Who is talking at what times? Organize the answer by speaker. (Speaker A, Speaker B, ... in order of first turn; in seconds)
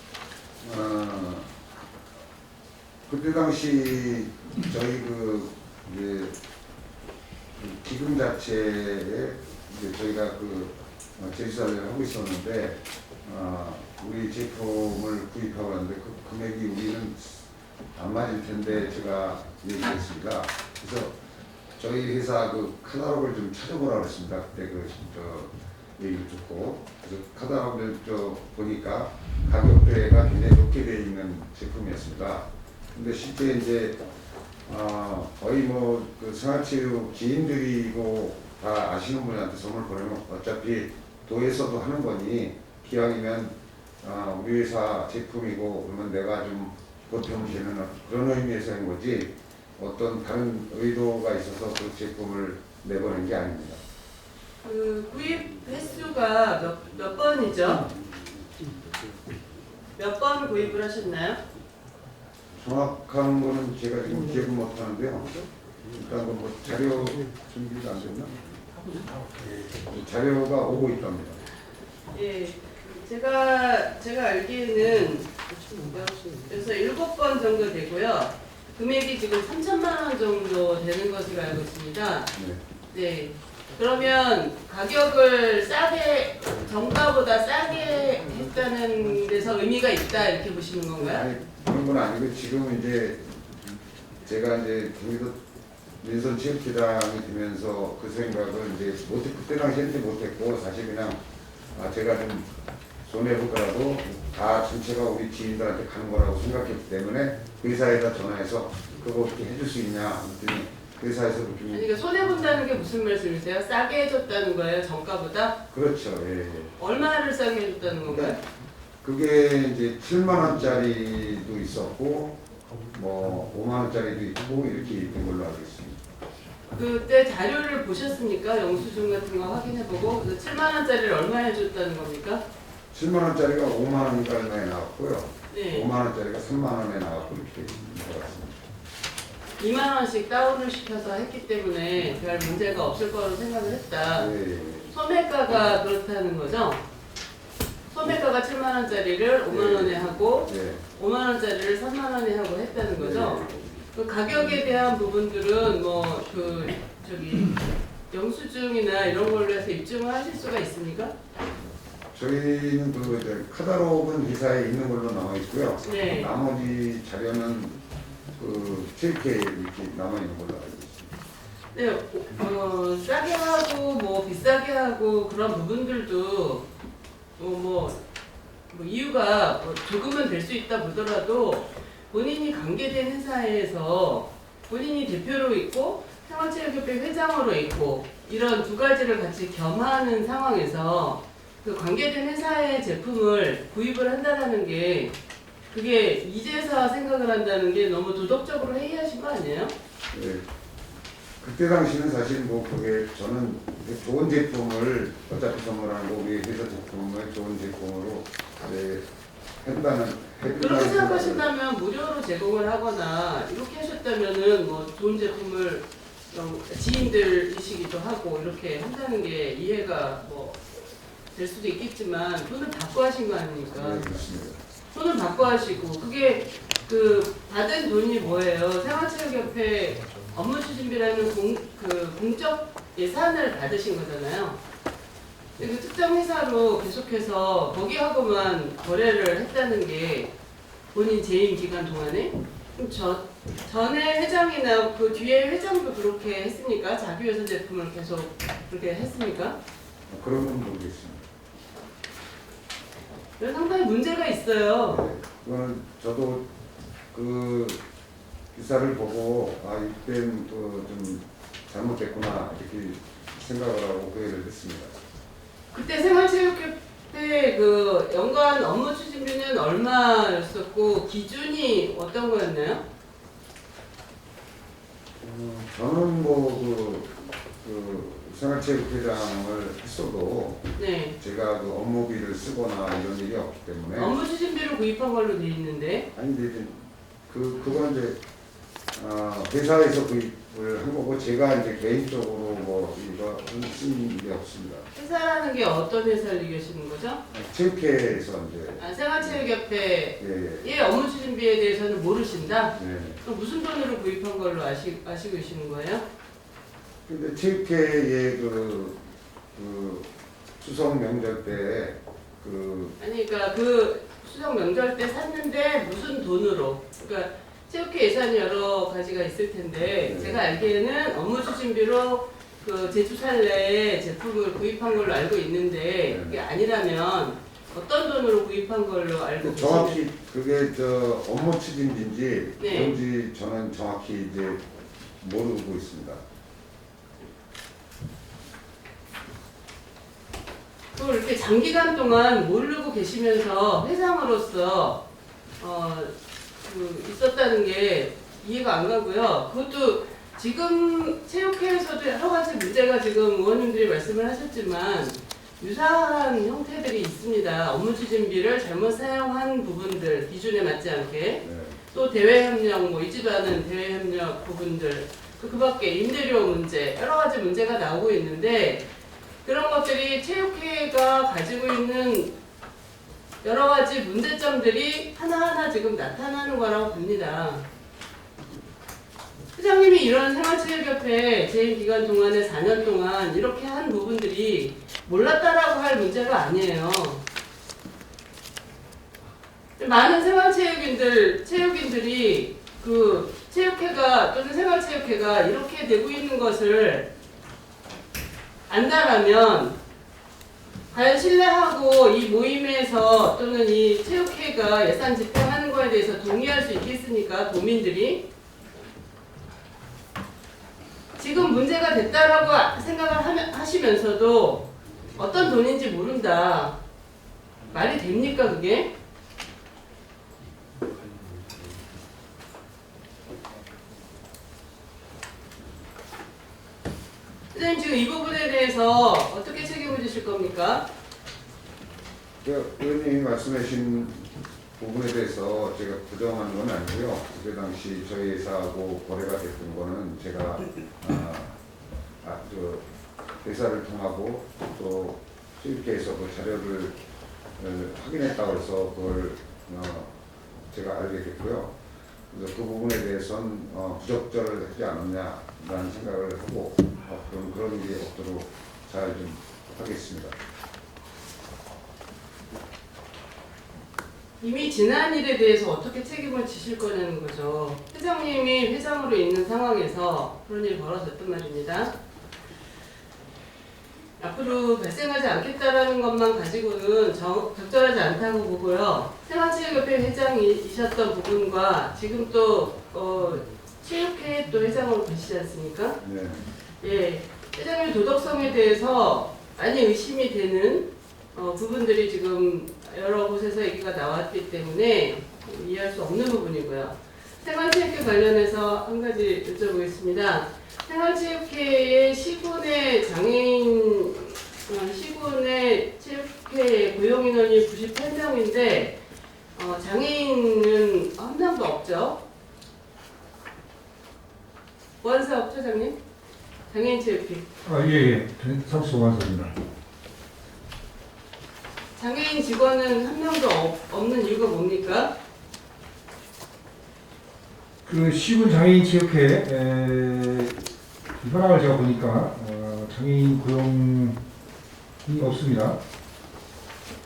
Speaker A: 0.6-1.6, 3.1-6.3, 7.6-21.1, 21.8-34.0, 34.6-53.8, 62.5-68.4, 69.5-71.4, 82.3-82.6, 91.0-93.2, 94.2-95.4, 96.0-101.2, 101.7-102.5, 103.0-111.9, 115.7-116.8, 119.0-126.0, 132.9-138.6, 144.1-144.9, 149.5-150.8, 153.0-153.7, 162.1-167.8, 168.4-171.1, 200.1-200.4, 201.4-209.1, 209.6-211.5, 223.7-224.6, 250.1-251.2, 254.8-256.4, 257.1-257.8, 258.5-265.0, 275.2-280.6, 281.2-284.1, 286.1-288.2, 288.9-294.9, 297.3-299.4, 300.2-300.7, 302.7-303.2, 307.1-310.1, 310.6-312.9, 320.0-320.4, 326.1-326.4, 329.4-334.6, 335.2-336.2, 361.4-361.8, 432.4-441.6, 442.2-442.9, 443.4-446.9, 447.6-450.1, 450.7-451.7, 452.3-460.3, 486.0-486.4
Speaker B: 54.6-57.9, 60.0-61.4, 72.1-82.3, 82.9-91.2, 111.7-115.5, 116.8-118.4, 126.7-132.4, 135.5-135.9, 139.6-144.3, 144.9-146.8, 147.9-157.6, 158.1-161.1, 165.8-166.3, 171.7-176.6, 177.4-178.0, 178.7-195.1, 195.7-199.7, 210.4-224.1, 224.9-234.6, 235.6-240.3, 240.9-249.6, 253.4-255.1, 265.7-272.8, 280.8-281.1, 283.9-286.1, 294.9-297.2, 298.8-306.0, 313.0-330.0, 332.6-332.9, 340.9-345.0, 345.6-368.9, 369.4-372.3, 373.4-377.6, 379.5-387.2, 389.8-397.1, 398.7-399.8, 400.9-408.2, 411.2-416.8, 417.6-418.9, 427.5-430.9, 464.4-471.9, 474.2-486.0, 486.8-509.0, 509.5-512.2, 515.0-516.0, 516.7-517.5, 522.0-525.1
Speaker C: 517.6-519.5, 527.9-534.2, 535.0-535.8